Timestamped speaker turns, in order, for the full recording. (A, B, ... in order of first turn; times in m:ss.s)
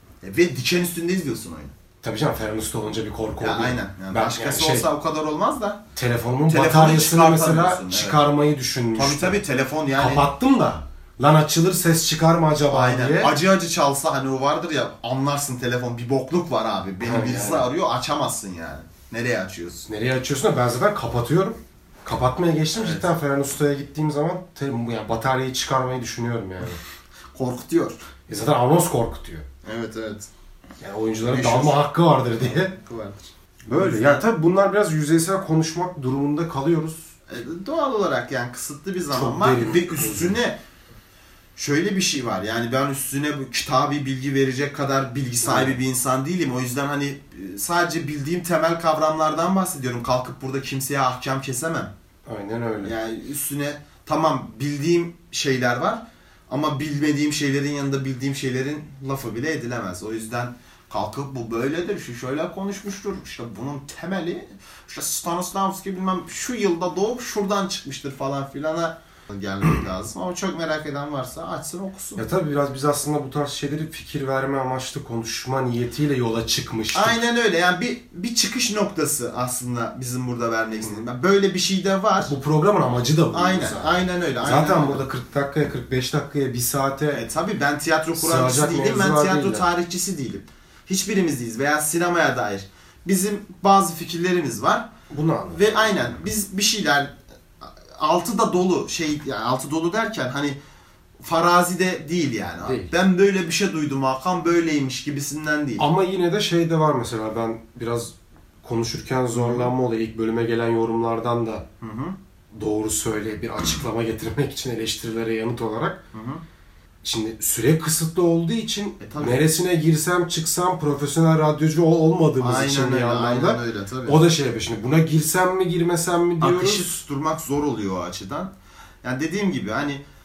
0:00.2-0:01.7 A
0:02.0-0:04.9 B
0:03.4-0:05.8 A
0:06.0-0:09.4 B
0:06.5-0:08.2 A
0:09.0-0:10.3 A
0:10.0-0:13.4 B
0:12.7-0:19.9 A
0:17.0-0:17.7 B
0:19.9-0:26.8 B
0:22.8-0:23.1 A
0:27.3-0:28.0 A
0:28.3-0:29.5 B
0:29.6-0:30.3 A
0:30.8-0:32.7 B
0:31.2-0:31.8 A
0:32.4-0:34.2 A
0:33.7-0:37.1 B
0:37.3-0:40.6 A
0:39.1-0:40.4 B
0:41.6-0:51.9 A
0:45.4-0:45.8 B
0:52.3-0:53.0 B
0:52.8-1:12.2 A
1:12.2-1:17.2 B
1:16.9-1:22.4 A
1:22.3-1:27.2 B
1:23.3-1:25.0 A
1:27.1-1:34.9 A
1:28.2-1:29.7 B
1:35.1-1:36.1 B
1:35.5-1:40.6 A
1:41.2-1:45.9 A
1:42.6-1:42.9 B
1:45.8-1:51.6 B
1:49.3-1:49.7 A
1:51.8-1:52.2 A
1:52.5-1:56.0 B
1:56.1-1:56.4 A
1:57.0-2:06.9 B
1:59.0-1:59.4 A
2:02.4-2:04.2 A
2:06.4-2:08.5 A
2:09.0-2:10.0 A